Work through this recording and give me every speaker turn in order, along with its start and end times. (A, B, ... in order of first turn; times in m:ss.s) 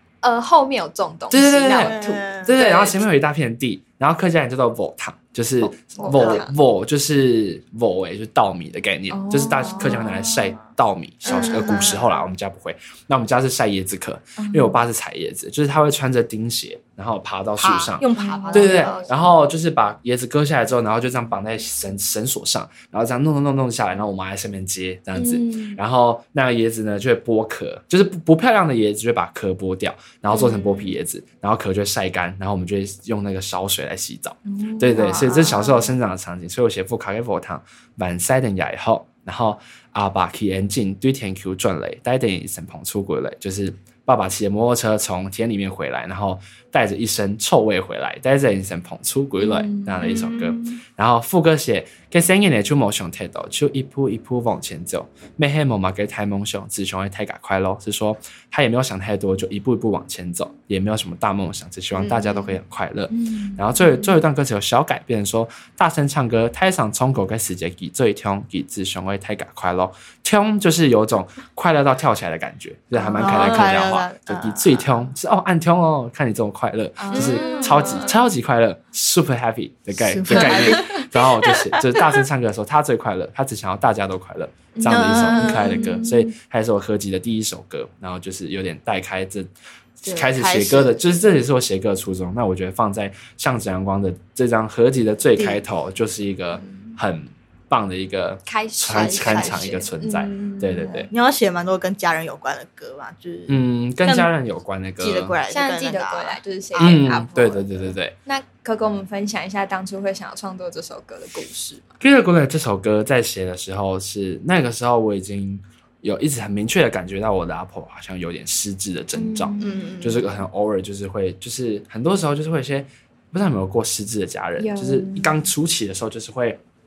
0:00.2-0:03.0 A
0:01.3-1:29.5 B
0:01.7-0:02.5 C
0:05.6-0:06.5 A
0:06.0-0:06.4 C
0:09.1-0:10.3 A
0:11.3-0:11.9 A
0:11.3-0:12.2 C
0:14.4-0:14.8 A
0:17.6-0:19.2 C
0:18.1-0:19.2 A
0:25.1-0:25.8 A
0:30.3-0:30.9 A
0:34.5-0:35.9 A
0:35.0-0:35.3 C
0:49.4-0:50.7 A
1:01.9-1:02.5 A
1:03.1-1:04.1 A
1:13.0-1:15.1 C
1:13.1-1:13.6 A
1:17.0-1:18.2 A
1:17.1-1:17.9 C
1:19.9-1:21.0 C
1:20.3-1:21.0 A
1:24.7-1:26.3 A
1:24.8-1:26.0 C
1:30.0-1:41.1 B
1:30.0-1:31.0 C
1:38.4-1:41.0 A
1:38.8-1:39.8 C
1:41.1-1:44.3 C
1:43.5-1:45.4 B
1:45.0-1:47.2 C
1:45.5-1:47.7 A
1:46.8-1:48.1 B
1:48.2-1:51.9 A
1:52.0-2:06.6 B
1:59.1-1:59.9 A
1:59.6-2:00.2 C
2:04.6-2:05.4 A